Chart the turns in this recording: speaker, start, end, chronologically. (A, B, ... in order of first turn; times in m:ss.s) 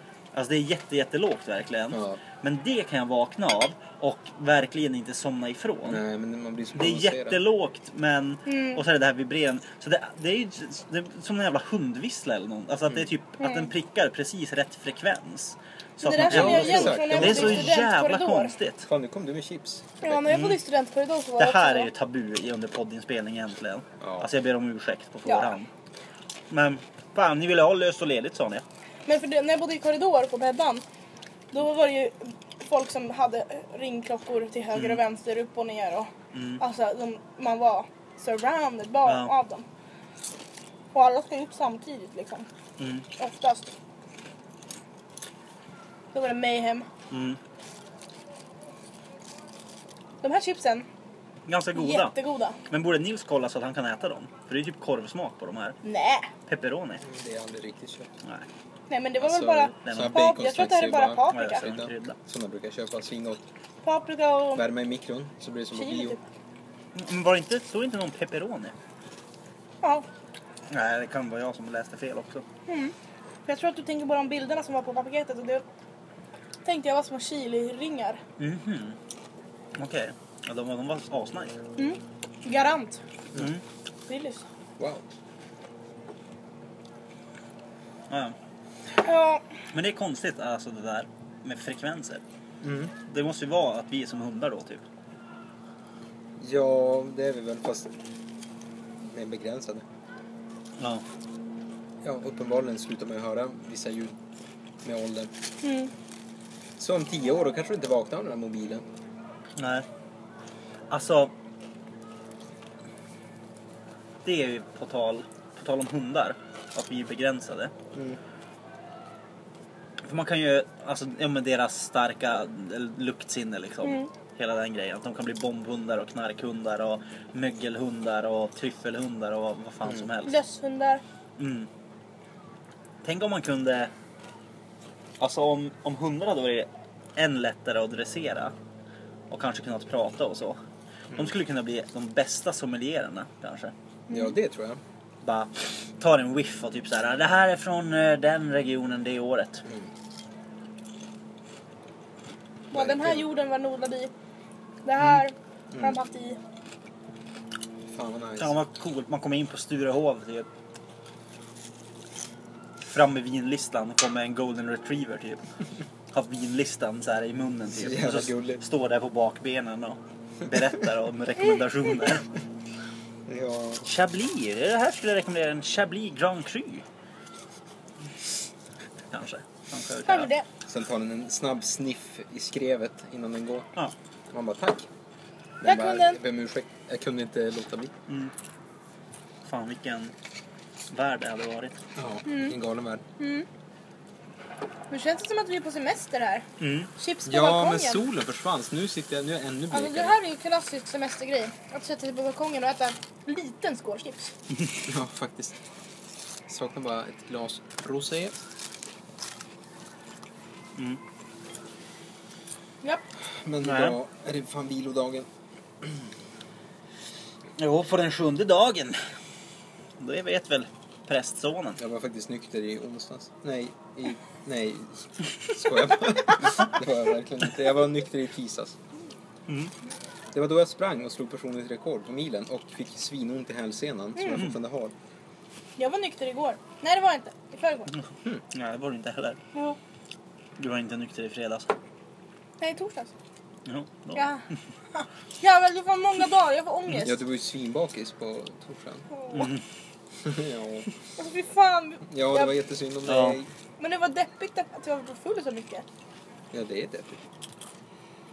0:00.3-0:06.0 A
0:01.9-0:02.2 B
0:05.8-0:07.4 B
0:06.7-0:18.9 A
0:08.5-0:08.8 C
0:13.4-0:13.7 C
0:16.0-0:18.5 C
0:16.2-0:17.8 B
0:18.9-0:20.4 B
0:20.0-0:21.9 C
0:20.3-0:20.6 A
0:21.4-0:25.7 A
0:24.0-0:24.3 B
0:25.3-0:25.5 C
0:26.5-0:28.6 A
0:29.1-0:30.8 C
0:31.5-0:39.7 C
0:34.7-0:35.0 A
0:36.3-0:36.6 A
0:39.0-0:39.3 A
0:40.9-0:42.5 C
0:42.8-0:43.1 A
0:43.2-0:43.7 C
0:46.1-0:46.9 C
0:47.1-0:47.4 A
0:50.2-0:50.9 C
0:51.5-0:52.2 A
0:51.8-0:52.6 C
0:52.7-0:55.8 A
0:55.8-0:56.3 C
0:56.5-0:57.0 A
0:57.0-0:58.1 B
0:58.9-1:01.6 C
0:59.2-1:03.4 B
0:59.8-1:00.3 A
1:01.3-1:02.2 A
1:03.8-1:04.6 C
1:04.5-1:06.2 B
1:05.7-1:06.2 C
1:07.0-1:08.8 A
1:10.7-1:12.4 A
1:12.7-1:13.0 C
1:13.5-1:15.6 C
1:16.6-1:18.2 C
1:18.4-1:19.0 A
1:19.8-1:21.6 A
1:21.8-1:23.0 C
1:23.4-1:23.6 A
1:24.1-1:24.4 C
1:24.8-1:25.0 B
1:28.1-1:28.4 A
1:29.0-1:29.4 C
1:29.7-1:32.2 A
1:32.6-1:32.9 B
1:33.0-1:34.8 A
1:36.4-1:37.9 B
1:39.0-1:39.9 B
1:40.8-1:41.0 A
1:42.0-1:44.2 B
1:44.8-1:45.3 B
1:45.6-1:45.9 C
1:46.8-1:48.8 B
1:49.6-1:49.9 A
1:50.9-1:51.3 A
1:54.2-1:57.7 A
1:57.9-1:58.2 B
2:00.0-2:10.4 A
2:03.8-2:04.1 C
2:10.2-2:11.0 C
2:11.4-2:11.7 A
2:13.0-2:13.9 A
2:15.2-2:18.5 A
2:19.3-2:20.6 A
2:21.1-2:23.7 A
2:24.1-2:24.4 C
2:24.1-2:24.8 B
2:25.2-2:29.6 A
2:32.7-2:34.1 C
2:32.7-2:33.3 B
2:34.8-2:36.4 C
2:37.9-2:38.6 B
2:38.4-2:40.5 A
2:42.8-2:45.4 A
2:46.1-2:52.3 A
2:47.7-2:48.6 B
2:53.3-2:53.9 B
2:53.8-2:56.8 A
2:59.1-3:00.3 A
3:00.1-3:00.5 C
3:00.7-3:03.7 B
3:04.3-3:04.9 B
3:05.6-3:07.9 B
3:05.6-3:06.2 C
3:09.4-3:10.1 A
3:10.9-3:11.8 A
3:12.0-3:13.0 B
3:12.2-3:12.6 C
3:13.2-3:13.5 C
3:14.9-3:16.5 C
3:16.6-3:16.9 A
3:17.0-3:18.0 C
3:17.3-3:20.2 B
3:19.7-3:24.3 C
3:24.5-3:24.8 A
3:24.8-3:25.6 B
3:26.5-3:28.4 B
3:30.8-3:31.0 A
3:33.2-3:35.3 B
3:33.6-3:34.0 A
3:35.8-3:36.1 B
3:37.6-3:39.0 A
3:40.0-3:41.8 A
3:41.8-3:48.8 B
3:50.3-3:54.9 B
3:54.2-3:54.5 C
3:55.8-3:57.9 C
3:57.9-3:59.4 A
4:00.6-4:01.8 A
4:02.6-4:03.1 C
4:03.7-4:04.3 A
4:04.2-4:04.4 C
4:05.0-4:07.2 C
4:06.9-4:09.1 B
4:09.1-4:09.5 C
4:09.3-4:09.6 A
4:10.2-4:10.9 B
4:11.2-4:12.5 C
4:12.1-4:13.5 B
4:13.1-4:13.4 A
4:13.8-4:15.8 C
4:16.5-4:17.2 B